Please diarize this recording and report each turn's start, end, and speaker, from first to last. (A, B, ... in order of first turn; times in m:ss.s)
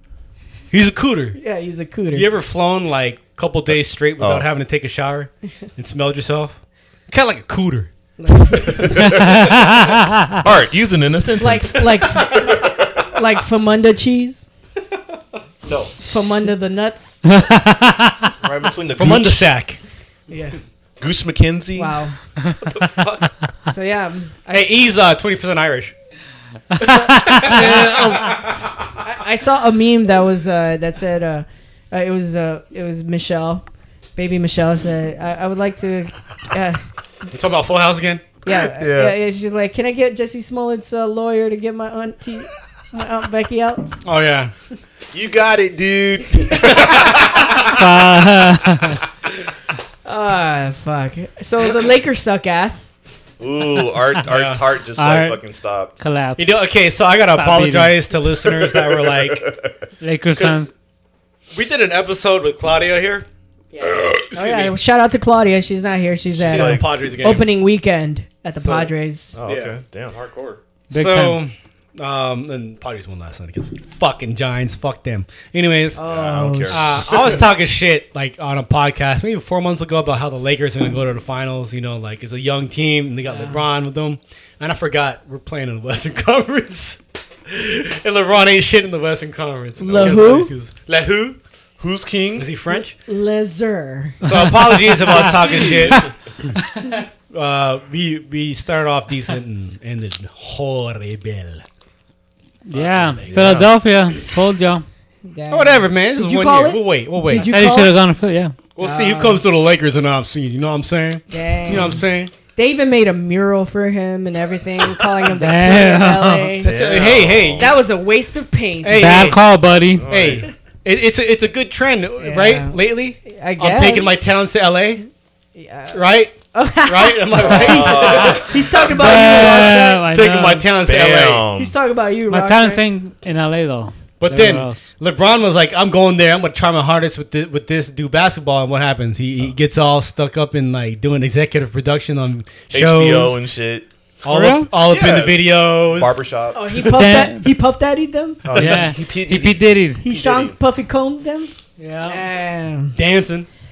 0:00.7-0:01.4 A
0:01.3-0:02.3 B
0:02.1-0:07.9 A
0:03.7-0:04.5 C
0:08.2-0:08.9 B
0:08.7-0:09.5 C
0:09.0-0:10.3 D
0:10.4-0:12.8 C
0:11.4-0:14.5 B
0:15.6-0:15.9 C
0:16.0-0:17.2 B
0:17.2-0:18.3 D
0:18.4-0:19.5 C
0:19.0-0:19.8 A
0:20.3-0:20.6 B
0:21.0-0:22.0 C
0:21.8-0:22.2 B
0:22.7-0:23.3 A
0:23.7-0:24.9 B
0:24.5-0:25.9 A
0:26.8-0:27.7 D
0:26.8-0:28.7 A
0:26.9-0:33.6 B
0:34.2-0:36.8 B
0:37.3-0:38.2 A
0:38.4-0:44.0 B
0:38.6-0:39.2 C
0:44.0-0:44.5 A
0:45.1-0:48.0 C
0:46.5-0:47.6 B
0:47.5-0:49.0 D
0:50.0-0:52.9 B
0:53.4-0:56.0 C
0:54.3-0:54.6 A
0:54.9-0:55.4 D
0:56.0-0:56.6 D
0:56.4-0:59.5 A
0:57.3-0:58.0 D
0:58.2-0:59.8 C
1:00.0-1:00.7 D
1:00.4-1:00.7 A
1:01.5-1:03.3 A
1:03.7-1:09.4 B
1:04.2-1:04.8 A
1:06.4-1:07.5 A
1:06.4-1:07.4 C
1:08.6-1:08.9 A
1:09.3-1:10.6 C
1:09.4-1:09.8 A
1:10.9-1:11.4 D
1:10.9-1:16.0 A
1:16.0-1:17.3 B
1:16.1-1:17.4 C
1:16.7-1:31.4 A
1:23.3-1:23.6 B
1:29.8-1:30.5 B
1:29.9-1:30.3 C
1:31.8-1:32.5 C
1:32.4-1:33.0 A
1:32.7-1:34.3 B
1:34.2-1:36.1 A
1:34.9-1:35.2 D
1:35.5-1:36.0 C
1:37.3-1:41.6 A
1:42.7-1:44.9 D
1:42.7-1:43.6 A
1:43.3-1:43.7 C
1:45.2-1:48.0 B
1:45.5-1:47.5 A
1:47.3-1:48.6 D
1:48.8-1:52.3 A
1:48.8-1:49.4 B
1:51.3-1:59.3 B
1:55.4-1:56.6 D
1:56.6-1:57.8 A
1:56.6-1:57.8 C
1:58.8-1:59.4 A
1:59.0-2:00.1 D
1:59.9-2:00.5 C
2:00.0-2:05.1 A
2:02.2-2:04.2 B
2:05.6-2:10.0 B
2:05.9-2:11.5 A
2:07.4-2:08.7 C
2:07.7-2:08.2 D
2:08.8-2:10.7 D
2:10.8-2:11.7 C
2:11.6-2:12.8 B
2:12.3-2:14.9 D
2:14.2-2:23.4 A
2:22.7-2:23.9 C
2:24.2-2:24.7 D
2:24.2-2:26.2 A
2:24.9-2:26.7 C
2:26.5-2:28.5 B
2:26.7-2:27.0 A
2:26.9-2:27.4 D
2:28.4-2:30.6 C
2:28.5-2:30.0 D
2:28.5-2:28.8 A
2:30.0-2:33.0 B
2:31.8-2:32.2 A
2:33.0-2:33.5 A